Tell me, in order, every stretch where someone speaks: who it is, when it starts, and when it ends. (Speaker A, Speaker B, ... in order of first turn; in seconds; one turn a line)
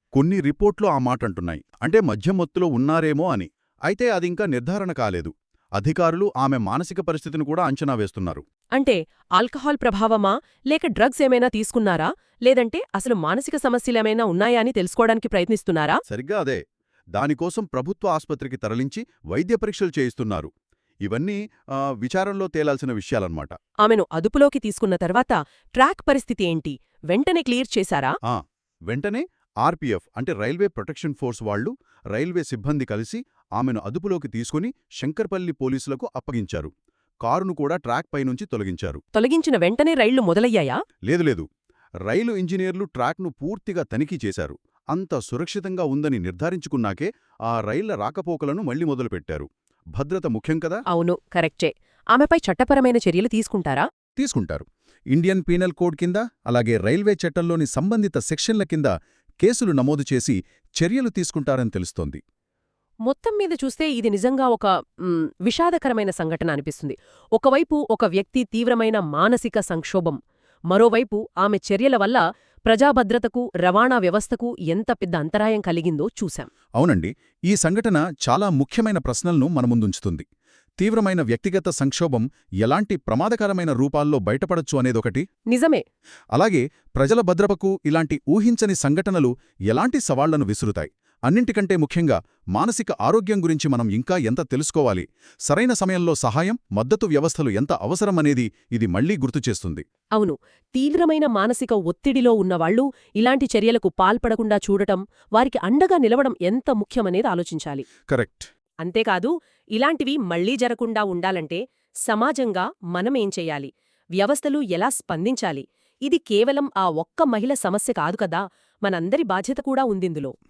Speaker A: 0.1-8.4
Speaker B: 8.8-16.0
Speaker A: 16.1-16.6
Speaker A: 17.2-20.5
Speaker A: 21.1-23.5
Speaker B: 23.8-28.1
Speaker A: 28.3-36.7
Speaker A: 37.2-39.0
Speaker B: 39.1-40.8
Speaker A: 41.1-41.5
Speaker A: 42.1-50.8
Speaker B: 50.9-53.9
Speaker A: 54.2-62.2
Speaker B: 63.1-70.2
Speaker B: 70.7-76.5
Speaker A: 76.8-80.2
Speaker A: 80.8-85.2
Speaker B: 85.5-85.8
Speaker A: 86.3-99.8
Speaker B: 100.2-107.8
Speaker A: 108.1-108.5
Speaker B: 108.8-120.3